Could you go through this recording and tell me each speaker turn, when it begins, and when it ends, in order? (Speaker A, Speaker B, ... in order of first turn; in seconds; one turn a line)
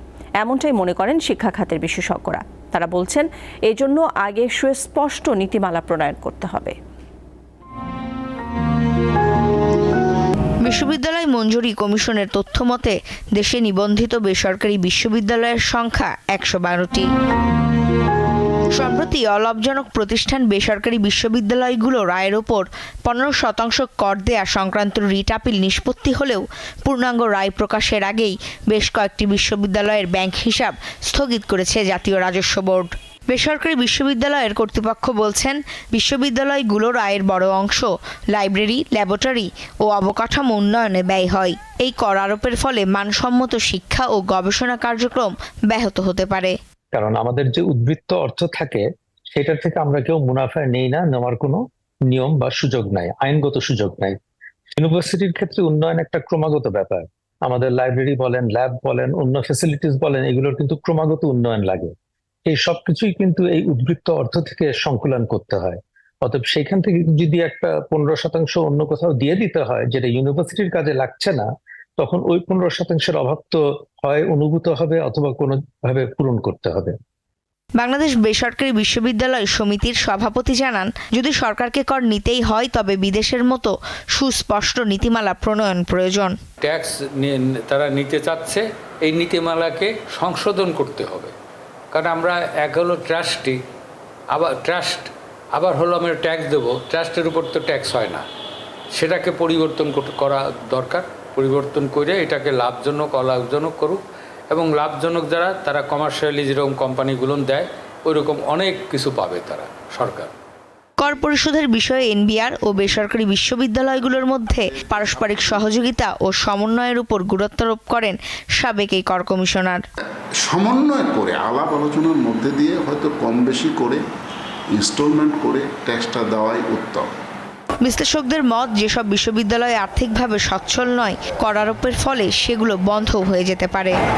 Speaker A: 0.4-6.7
Speaker B: 10.6-17.1
Speaker B: 18.7-46.5
Speaker C: 46.9-54.2
Speaker C: 54.8-61.9
Speaker C: 62.5-71.5
Speaker C: 72.0-77.0
Speaker B: 77.8-86.3
Speaker D: 86.6-91.3
Speaker D: 91.9-93.6
Speaker D: 94.3-98.2
Speaker D: 98.9-110.3
Speaker B: 111.0-119.8
Speaker E: 120.4-124.0
Speaker E: 124.7-127.1
Speaker B: 127.8-133.9